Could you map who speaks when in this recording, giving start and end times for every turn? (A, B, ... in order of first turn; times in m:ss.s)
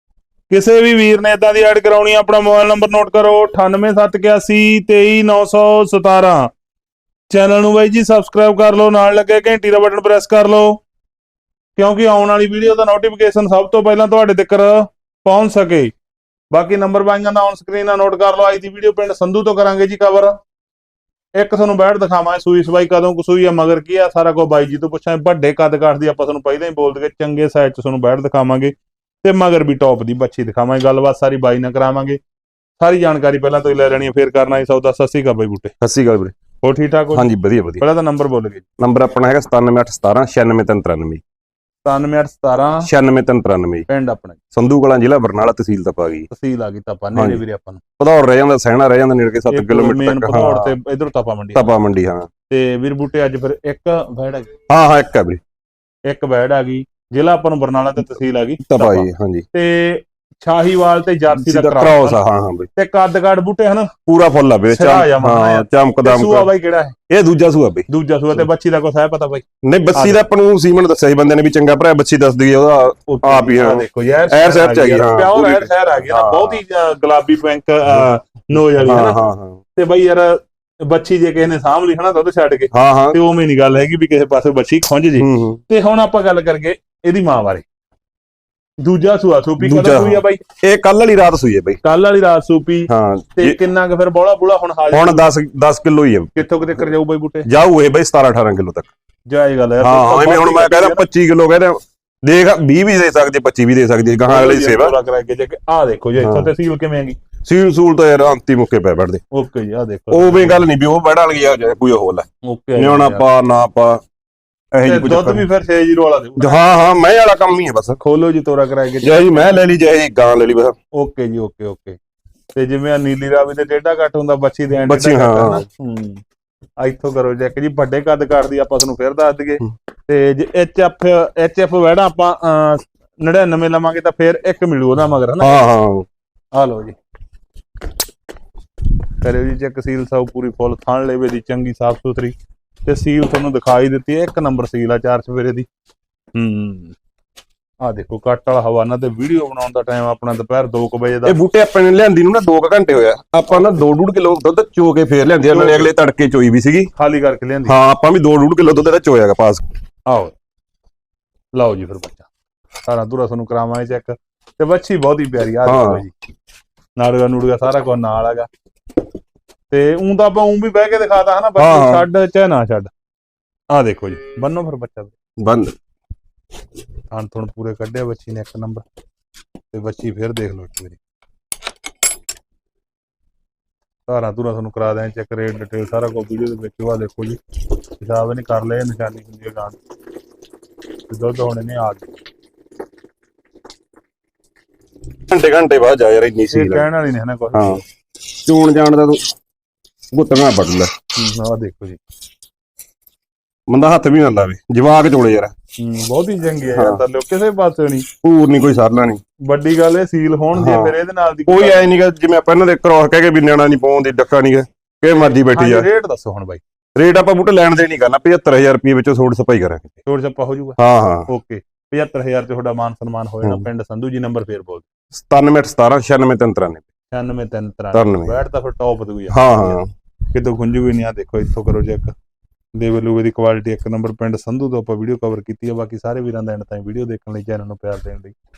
0:00.5-0:06.5 A
0:07.3-0:10.8 A
0:11.8-0:15.9 A
0:16.5-0:20.4 A
0:21.4-0:32.2 A
0:32.8-0:35.7 A
0:35.8-0:36.4 B
0:36.6-0:38.6 A
0:37.1-0:37.8 B
0:38.8-0:41.2 B
0:41.8-0:42.9 A
0:42.8-0:43.9 B
0:43.9-0:44.4 A
0:44.5-0:46.3 B
0:46.3-0:47.8 A
0:47.2-0:47.4 B
0:48.0-0:50.7 B
0:49.5-0:51.6 A
0:51.6-0:52.3 B
0:52.5-0:54.5 A
0:54.7-0:55.4 B
0:56.1-1:02.2 A
0:58.6-0:59.5 B
1:01.3-1:02.7 B
1:02.8-1:03.9 A
1:04.1-1:06.5 B
1:04.7-1:07.0 A
1:07.1-1:08.4 B
1:07.9-1:09.4 A
1:09.6-1:16.6 B
1:10.0-1:10.2 A
1:13.1-1:19.2 A
1:18.8-1:19.6 B
1:19.8-1:27.6 A
1:22.7-1:23.2 B
1:25.2-1:25.6 B
1:28.8-1:30.4 A
1:29.6-1:31.8 B
1:31.8-1:35.2 A
1:32.9-1:33.6 B
1:34.9-1:36.5 B
1:36.4-1:37.5 A
1:37.5-1:38.9 B
1:39.3-1:41.0 A
1:39.8-1:45.0 B
1:44.3-1:47.2 A
1:46.2-1:46.5 B
1:47.4-1:49.2 B
1:49.3-1:50.6 A
1:50.1-1:54.0 B
1:52.4-1:53.2 A
1:54.7-1:55.5 B
1:54.8-1:56.6 A
1:56.4-1:58.0 B
1:58.0-1:59.6 A
1:59.0-2:00.8 B
2:01.0-2:02.0 A
2:02.5-2:06.2 A
2:04.9-2:05.6 B
2:06.8-2:15.6 A
2:15.4-2:16.1 B
2:16.5-2:17.0 A
2:19.2-2:22.3 A
2:22.8-2:25.7 A
2:26.4-2:27.0 A
2:27.8-2:31.4 A
2:31.3-2:36.9 B
2:35.5-2:35.9 A
2:37.0-2:37.7 A
2:37.7-2:39.6 B
2:40.1-2:40.3 A
2:41.6-2:42.3 A
2:42.8-2:46.1 A
2:45.6-2:46.0 B
2:47.0-2:48.5 A
2:49.7-2:52.9 A
2:51.6-2:52.1 B
2:53.7-2:55.1 A
2:55.4-2:55.8 B
2:57.1-2:58.8 A
2:59.7-3:01.0 A
3:04.1-3:07.4 A
3:08.0-3:09.8 A
3:11.1-3:12.1 A
3:15.3-3:16.9 B
3:16.5-3:17.8 A
3:17.5-3:17.8 B
3:18.4-3:19.2 B
3:20.1-3:20.9 B
3:21.2-3:22.0 A
3:23.7-3:25.5 B
3:25.8-3:28.1 A
3:26.8-3:27.0 B
3:28.2-3:29.2 B
3:29.5-3:31.9 A
3:30.6-3:35.9 B
3:35.5-3:36.6 A
3:37.0-3:40.0 B
3:40.0-3:44.9 A
3:40.8-3:41.3 B
3:45.1-3:46.9 B
3:47.1-3:49.8 A
3:47.9-3:48.4 B
3:49.3-3:49.9 B
3:50.3-3:52.1 A
3:52.8-3:58.3 A